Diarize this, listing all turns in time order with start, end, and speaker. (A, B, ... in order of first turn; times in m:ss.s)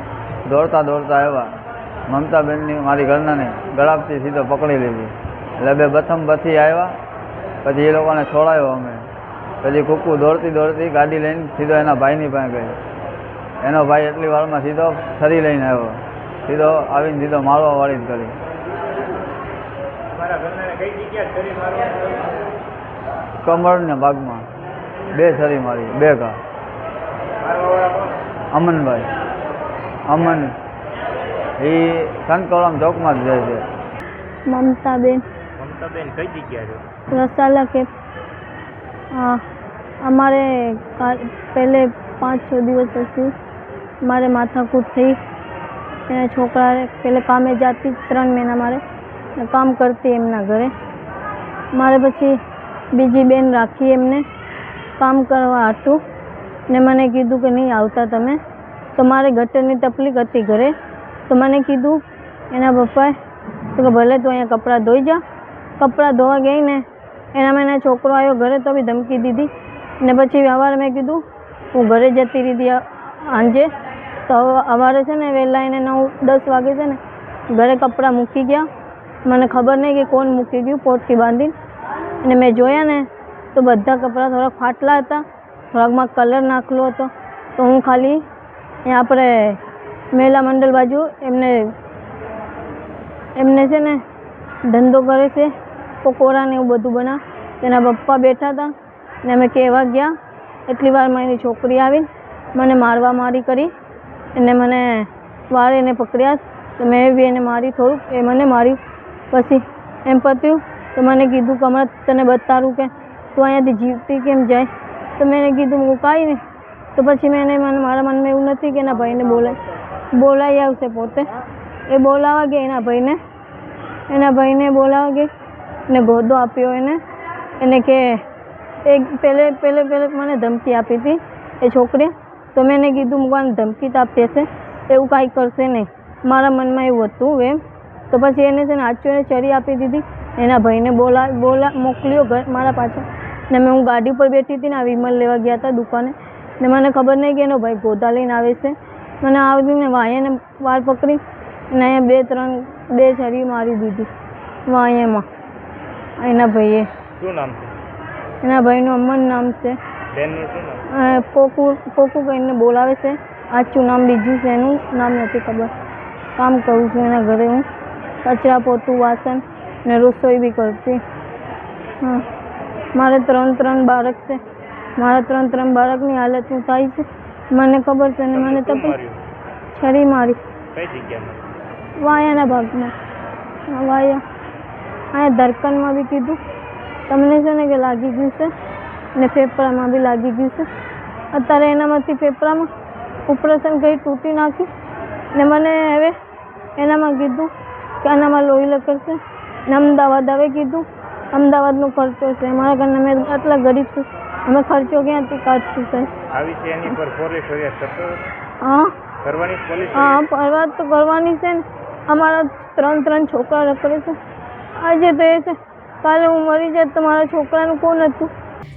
0:00.4-0:07.0 A
0:07.6-0:09.1 A
0:09.6-0:12.8 A
0:13.6-0:18.4 A
0:20.1-0:22.3 B
0:23.4-0:24.5 A
0:25.1-0:26.4 A
0:27.4-0:28.2 B
0:28.5-0:29.1 A
0:30.1-0:30.6 A
0:31.6-0:33.6 A
0:34.5-0:35.2 C
0:35.6-0:36.8 B
0:37.1-0:37.8 C
0:39.1-0:39.4 C
0:40.0-0:43.3 C
0:44.0-0:45.2 C
0:46.1-0:48.8 C
0:49.4-0:50.7 C
0:51.7-0:52.4 C
0:52.9-0:54.2 C
0:55.0-0:56.0 C
0:56.7-0:58.4 C
0:59.0-1:00.7 C
1:01.3-1:02.0 C
1:02.5-1:03.1 C
1:03.8-1:05.2 C
1:05.8-1:06.8 C
1:07.3-1:09.5 C
1:10.0-1:11.2 C
1:11.7-1:13.7 C
1:14.3-1:17.0 C
1:17.5-1:18.7 C
1:19.2-1:21.5 C
1:22.2-1:28.2 C
1:28.8-1:29.6 C
1:30.1-1:31.7 C
1:33.4-1:34.0 C
1:34.7-1:35.5 C
1:36.0-1:38.7 C
1:39.2-1:40.1 C
1:40.7-1:43.7 C
1:44.3-1:48.8 C
1:49.3-1:56.4 C
1:57.0-1:59.6 C
2:00.1-2:01.3 C
2:01.9-2:03.2 C
2:04.1-2:05.3 C
2:05.9-2:07.0 C
2:07.6-2:08.2 C
2:08.8-2:17.6 C
2:18.1-2:31.2 C
2:31.7-2:34.1 C
2:34.7-2:35.2 C
2:36.2-2:36.9 C
2:37.2-2:37.8 B
2:38.4-2:39.8 C
2:40.1-2:40.8 B
2:40.9-2:45.7 C
2:46.4-2:47.6 C
2:48.2-2:51.0 C
2:52.9-2:54.4 C
2:55.0-2:58.9 C
2:58.3-2:59.2 B
2:59.7-3:00.4 C
3:00.7-3:01.5 B
3:02.0-3:02.9 C
3:03.7-3:04.2 C
3:05.1-3:06.4 C
3:07.1-3:08.5 C
3:09.2-3:10.7 C
3:11.3-3:12.7 C
3:13.3-3:14.7 C
3:15.3-3:16.1 C
3:16.8-3:17.5 C
3:18.0-3:26.1 C
3:26.3-3:28.2 B
3:28.6-3:28.9 C
3:29.2-3:30.2 B
3:29.9-3:34.2 C
3:34.8-3:38.3 C